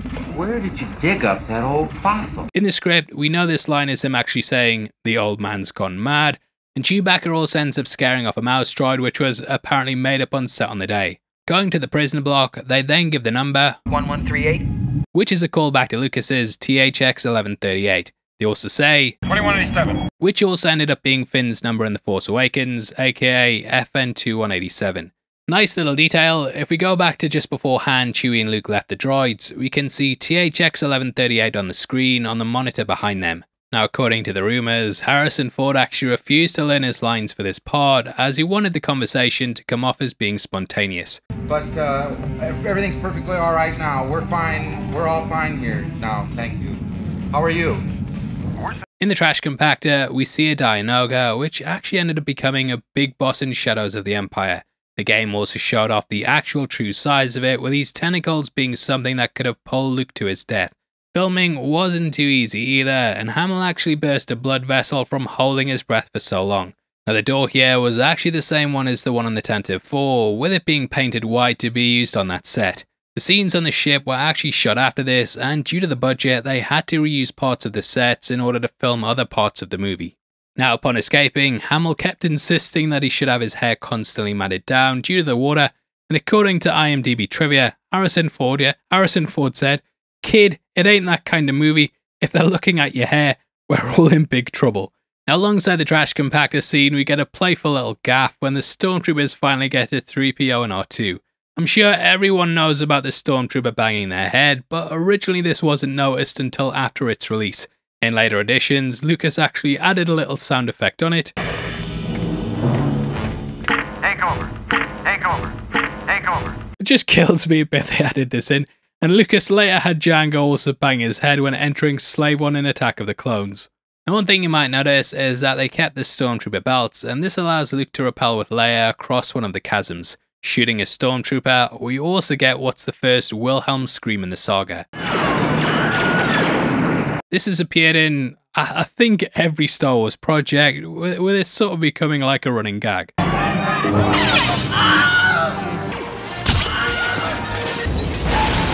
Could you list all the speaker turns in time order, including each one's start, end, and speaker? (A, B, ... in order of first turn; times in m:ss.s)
0:00.3-0:02.5 A
0:02.5-0:13.8 B
0:13.9-0:14.7 C
0:15.1-0:19.2 B
0:19.3-0:20.0 C
0:20.2-0:41.2 B
0:41.5-0:46.8 D
0:47.3-0:47.8 D
0:49.0-1:51.3 B
1:54.0-1:54.5 C
1:55.0-1:55.6 C
1:56.1-1:56.6 C
1:56.8-2:14.9 B
2:17.3-2:23.1 B